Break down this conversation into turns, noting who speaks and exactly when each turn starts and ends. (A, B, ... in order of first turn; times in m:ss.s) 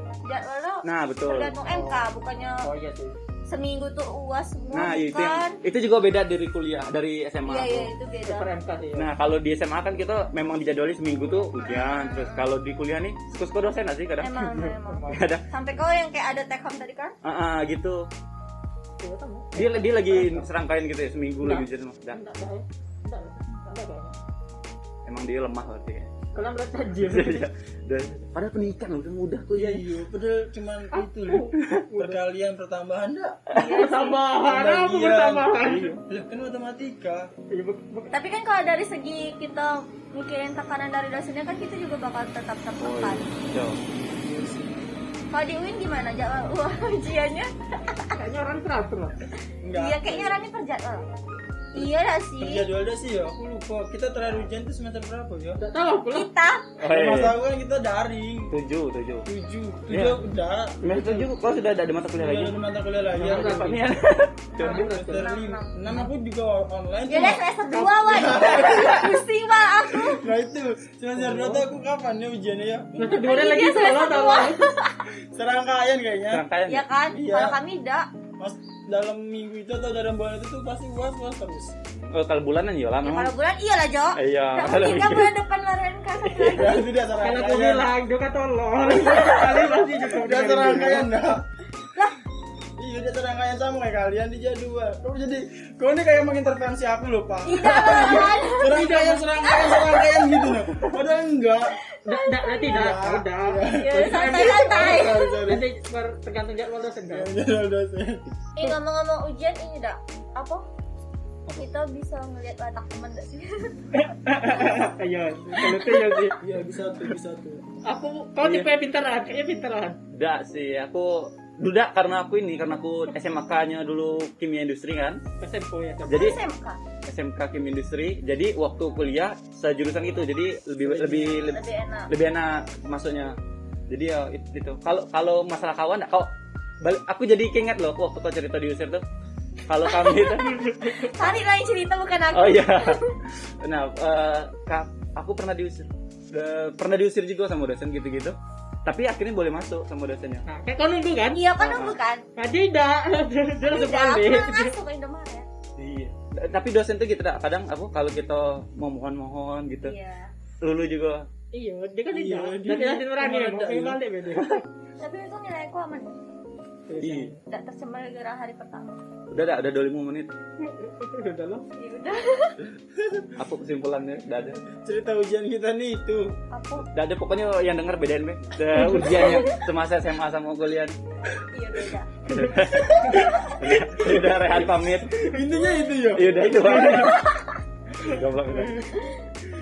0:00.2-0:02.7 A
0:00.8-0:01.6 B
0:01.6-0:02.0 C
0:02.6-0:03.2 C
0:03.5-0:05.6 A
0:04.7-0:07.9 B
0:07.4-0:08.5 A
0:08.2-0:09.1 C
0:09.0-0:14.4 B
0:11.6-0:12.5 A
0:14.2-0:17.1 A
0:14.4-0:15.2 C
0:15.1-0:15.4 B
0:17.2-0:18.0 B
0:19.0-0:20.1 C
0:19.5-0:22.2 B
0:20.1-0:20.4 D
0:21.4-0:24.2 C
0:25.0-0:26.1 B
0:26.3-0:27.4 C
0:27.0-0:29.8 B
0:29.5-0:33.4 D
0:30.9-0:32.2 C
0:33.5-0:34.2 A
0:33.5-0:36.0 C
0:34.4-0:37.3 D
0:37.5-0:38.1 C
0:38.1-0:43.2 A
0:42.8-0:43.8 B
0:44.0-0:44.9 D
0:45.3-0:48.2 A
0:48.1-0:49.2 C
0:49.6-0:50.3 D
0:49.7-0:51.0 A
0:51.7-0:52.7 A
0:52.4-0:55.6 D
0:55.6-0:56.3 C
0:56.1-0:56.7 A
0:56.8-0:57.4 B
0:56.8-0:58.5 D
0:58.5-0:59.2 B
0:59.2-1:01.3 D
0:59.9-1:00.2 B
1:00.8-1:02.6 B
1:02.2-1:03.8 D
1:03.1-1:03.8 C
1:03.2-1:05.1 B
1:04.6-1:05.7 A
1:04.6-1:05.2 C
1:04.6-1:09.2 D
1:07.1-1:10.3 A
1:09.9-1:13.2 D
1:11.2-1:11.7 C
1:13.0-1:14.7 C
1:13.2-1:15.0 A
1:15.3-1:16.4 D
1:16.3-1:16.9 B
1:16.7-1:18.0 A
1:17.1-1:17.6 D
1:18.4-1:21.7 D
1:21.9-1:23.3 B
1:23.0-1:27.0 A
1:24.1-1:25.3 B
1:26.3-1:27.9 D
1:27.2-1:31.1 C
1:29.3-1:31.4 D
1:32.8-1:41.8 D
1:37.4-1:38.8 A
1:37.6-1:38.0 B
1:38.6-1:39.3 C
1:39.4-1:40.6 A
1:42.0-1:42.8 A
1:42.0-1:47.3 C
1:42.6-1:45.6 D
1:43.6-1:45.4 A
1:47.1-1:48.4 D
1:48.6-1:50.6 A
1:51.6-1:53.8 A
1:53.9-1:56.4 C
1:55.6-1:56.4 A
1:56.4-1:57.6 D
1:57.8-2:00.0 C
1:58.4-1:58.7 B
2:00.1-2:05.2 B
2:05.4-2:06.3 C
2:06.0-2:06.8 A
2:06.1-2:06.4 B
2:07.0-2:13.4 B
2:10.8-2:11.5 C
2:11.5-2:12.1 A
2:13.9-2:16.3 B
2:16.8-2:19.0 B
2:19.7-2:20.6 B
2:19.8-2:23.2 A
2:20.3-2:21.4 C
2:22.3-2:30.4 B
2:30.5-2:31.4 C
2:31.3-2:32.2 A
2:31.6-2:32.0 B
2:32.4-2:34.7 C
2:33.6-2:35.5 A
2:35.8-2:39.9 B
2:39.8-2:40.3 A
2:40.6-2:41.3 B
2:41.5-2:44.6 C
2:42.1-2:44.0 D
2:45.0-2:46.2 A
2:46.9-2:47.4 C
2:47.0-2:47.3 B
2:47.5-2:49.0 A
2:49.3-2:50.3 B
2:50.6-2:51.6 C
2:51.8-2:52.6 A
2:53.0-2:53.3 D
2:53.4-2:54.6 B
2:54.7-2:56.3 D
2:56.5-2:56.8 A
2:56.9-3:01.0 B
2:58.7-2:59.2 C
2:59.0-2:59.6 A
3:01.5-3:02.1 A
3:02.3-3:05.1 B
3:02.3-3:02.6 C
3:02.8-3:07.1 D
3:05.5-3:06.0 A
3:06.1-3:07.2 B
3:06.6-3:07.1 C
3:06.8-3:07.3 A
3:08.0-3:08.9 B
3:08.6-3:08.9 D